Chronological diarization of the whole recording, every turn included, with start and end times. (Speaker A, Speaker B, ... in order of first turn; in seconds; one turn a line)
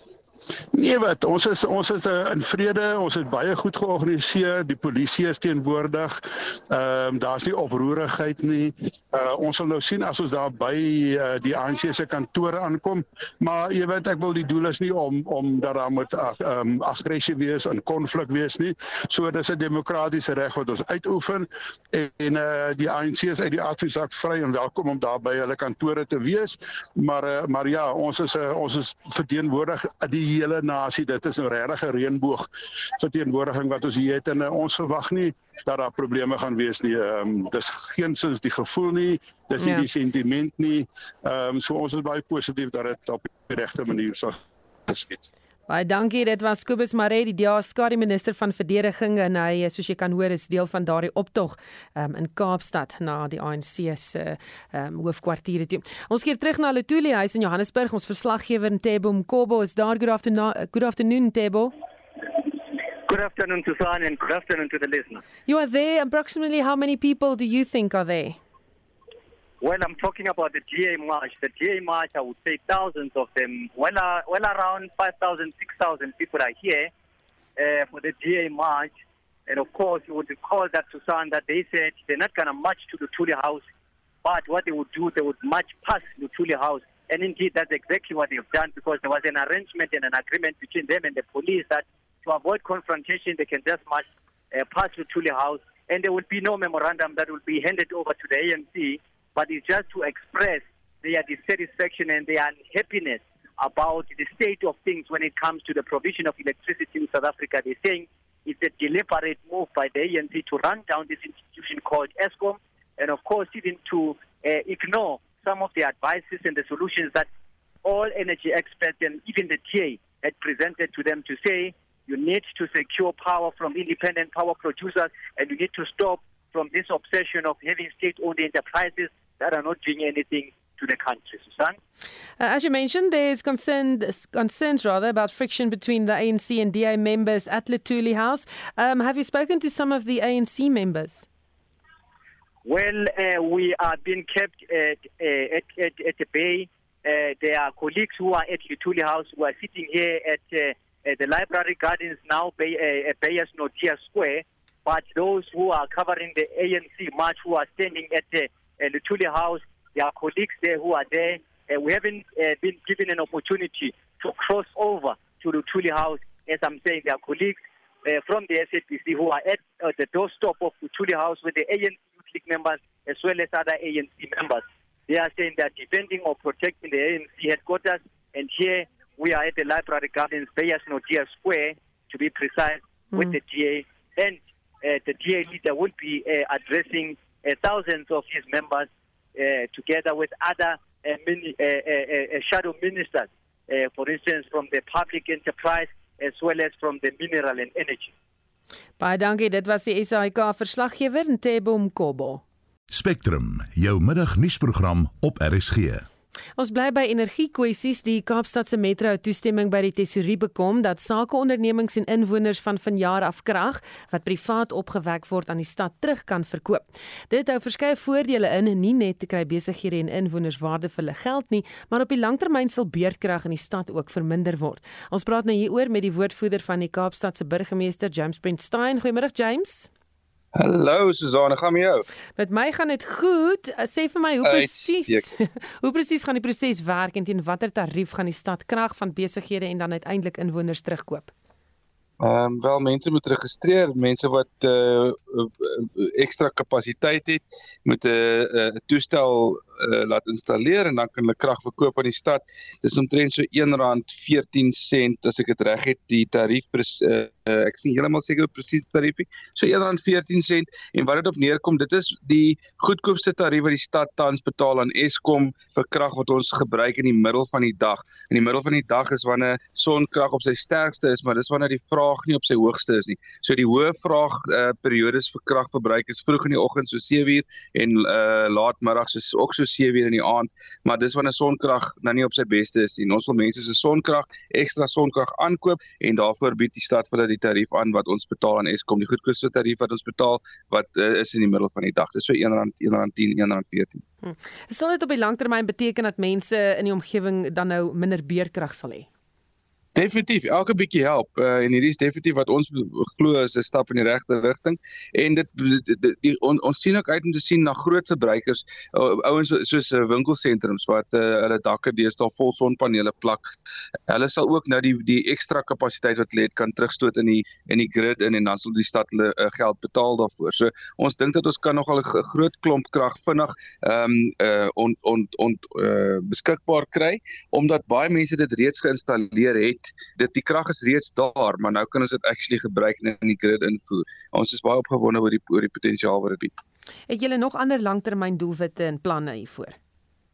Speaker A: 0.7-45.3
Speaker B: 45.7-61.7
Speaker C: 63.1-65.2
Speaker B: 65.5-68.4
Speaker C: 69.6-76.9
Speaker C: 77.6-78.9
Speaker C: 79.5-83.6
Speaker C: 84.2-117.3
Speaker C: 117.8-131.8
Speaker B: 132.4-141.3
Speaker C: 142.6-198.1
Speaker B: 199.0-202.4
Speaker D: 202.9-206.0
Speaker B: 206.6-229.9
Speaker E: 230.6-232.1
Speaker B: 232.3-241.3
Speaker E: 234.4-235.3
Speaker E: 242.2-294.0
Speaker B: 294.2-299.1
Speaker E: 299.9-313.5
Speaker E: 314.1-336.5
Speaker B: 337.1-339.8